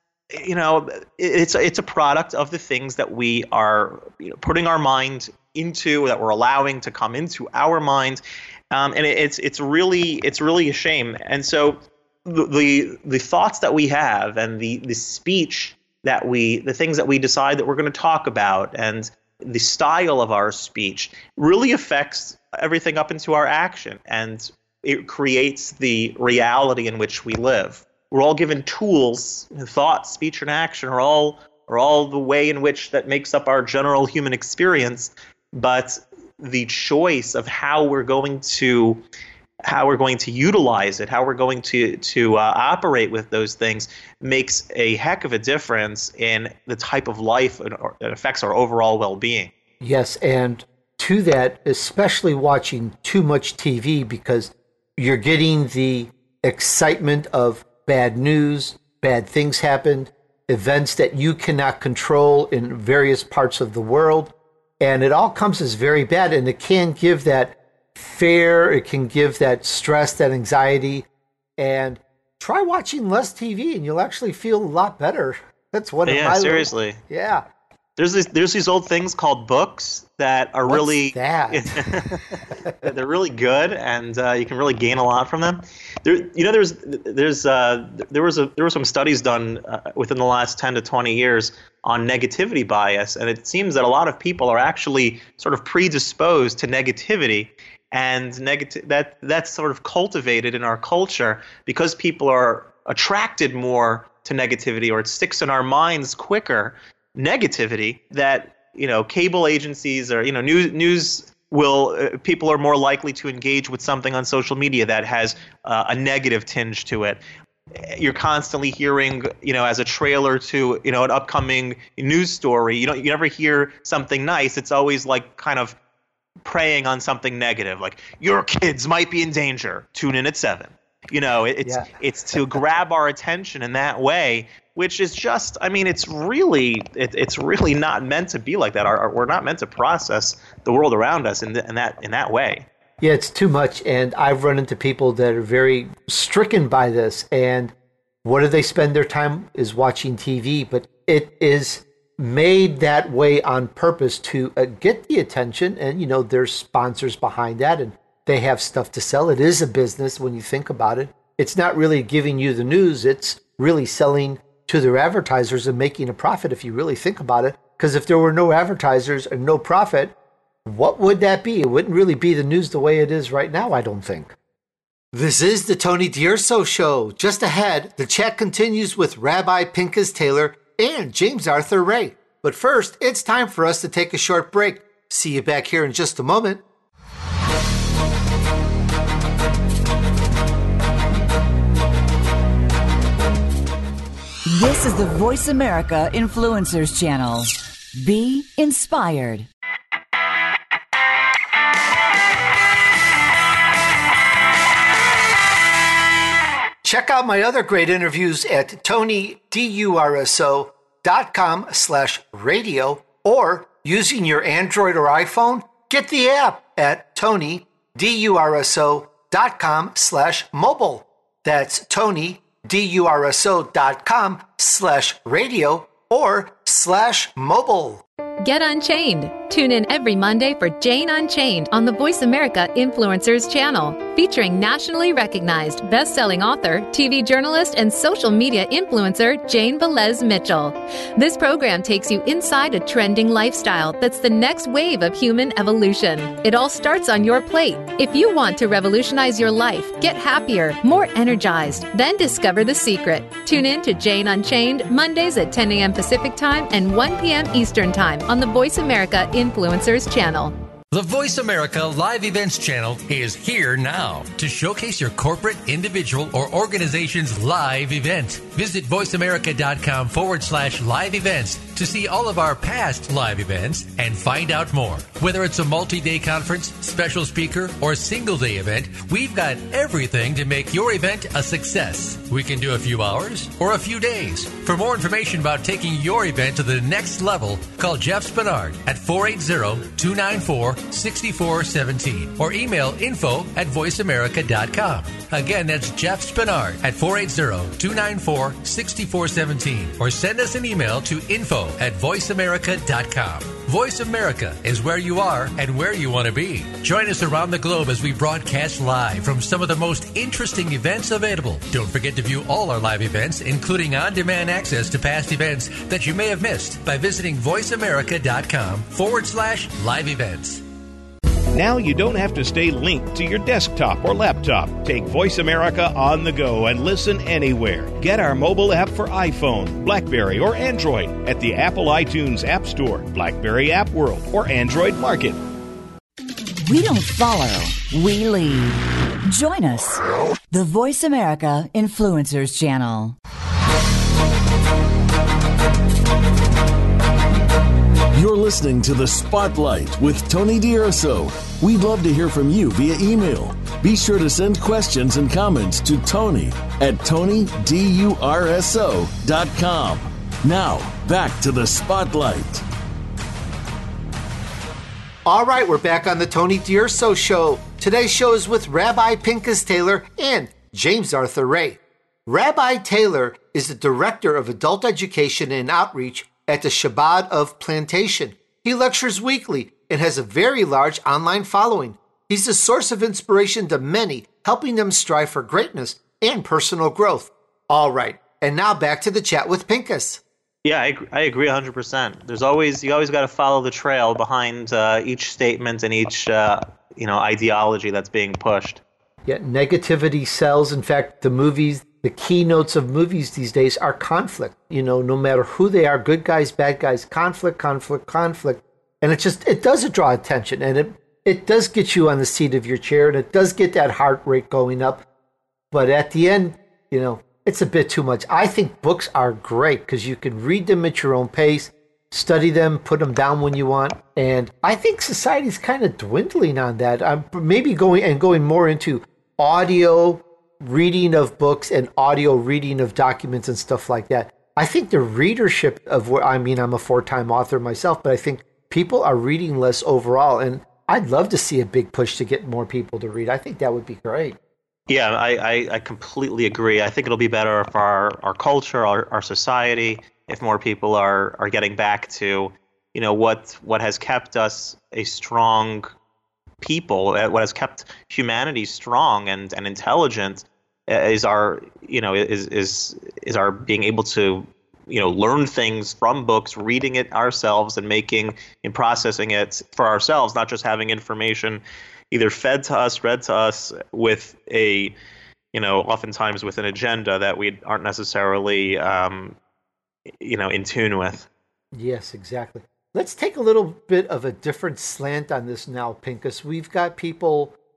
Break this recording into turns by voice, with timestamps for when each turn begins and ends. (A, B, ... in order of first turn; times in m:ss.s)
0:00.3-0:39.0 A
0:39.6-0:49.5 A
0:49.8-1:11.0 B
1:11.6-1:17.4 B
1:16.0-1:17.0 A
1:18.0-1:57.2 A
1:20.7-1:21.8 B
1:57.7-2:05.8 A
2:06.4-2:22.6 A
2:11.6-2:11.9 B
2:23.0-2:50.1 B
2:50.6-2:54.3 B
2:55.1-3:06.6 B
3:14.5-3:19.5 C
3:26.8-3:48.0 B
3:48.4-4:20.5 D
4:20.9-5:20.6 E
5:21.5-5:35.4 F
5:36.6-5:43.2 C
5:48.1-6:02.6 G
6:05.2-6:30.2 B
6:30.6-6:38.8 A
6:39.2-6:55.0 B
6:55.7-7:24.4 B
7:24.9-7:35.9 A
7:36.6-7:55.0 A
7:55.5-7:59.4 A
8:00.2-8:01.3 A
8:01.7-8:07.5 B